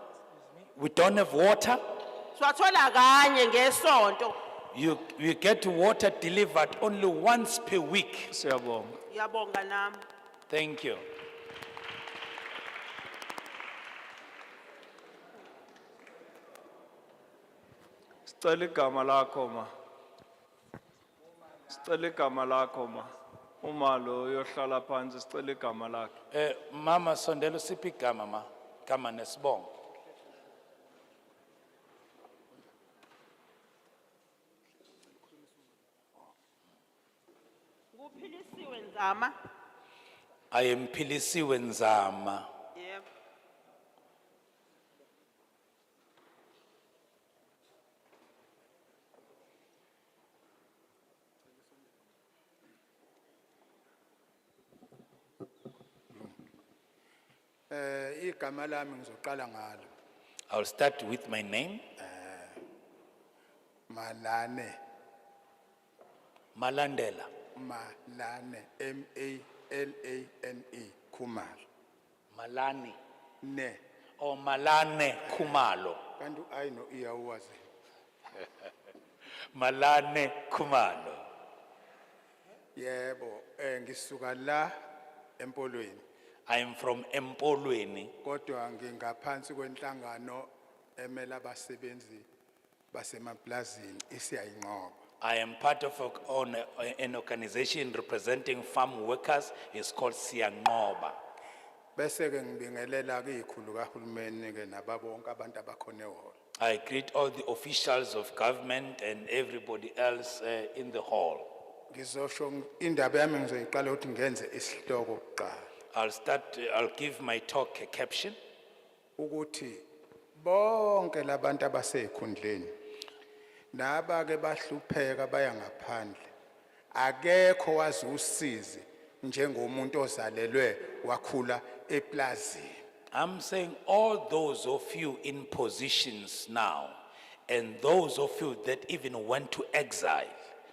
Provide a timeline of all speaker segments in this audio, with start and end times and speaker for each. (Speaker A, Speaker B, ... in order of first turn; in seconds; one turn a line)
Speaker A: 0.7-1.8
Speaker B: 2.3-4.3
Speaker A: 4.7-8.3
Speaker C: 8.3-8.9
Speaker B: 9.1-10.0
Speaker A: 10.5-11.0
Speaker C: 18.3-19.7
Speaker C: 21.7-26.1
Speaker A: 26.3-29.7
Speaker B: 37.9-39.3
Speaker A: 40.5-42.5
Speaker B: 42.7-43.0
Speaker D: 57.7-59.9
Speaker A: 60.5-61.8
Speaker D: 62.0-62.6
Speaker D: 63.9-64.8
Speaker A: 66.5-67.3
Speaker D: 67.5-71.6
Speaker A: 72.3-73.0
Speaker D: 73.4-73.8
Speaker A: 74.2-76.0
Speaker D: 76.2-77.6
Speaker A: 79.5-81.3
Speaker D: 82.7-84.7
Speaker D: 85.4-86.0
Speaker A: 86.5-88.1
Speaker D: 88.2-92.2
Speaker D: 92.9-95.0
Speaker A: 95.2-101.2
Speaker D: 102.0-106.3
Speaker A: 106.6-111.5
Speaker D: 111.9-115.7
Speaker A: 115.9-118.3
Speaker D: 119.2-119.8
Speaker D: 120.4-122.7
Speaker D: 123.7-126.3
Speaker D: 126.9-132.8
Speaker A: 133.1-140.4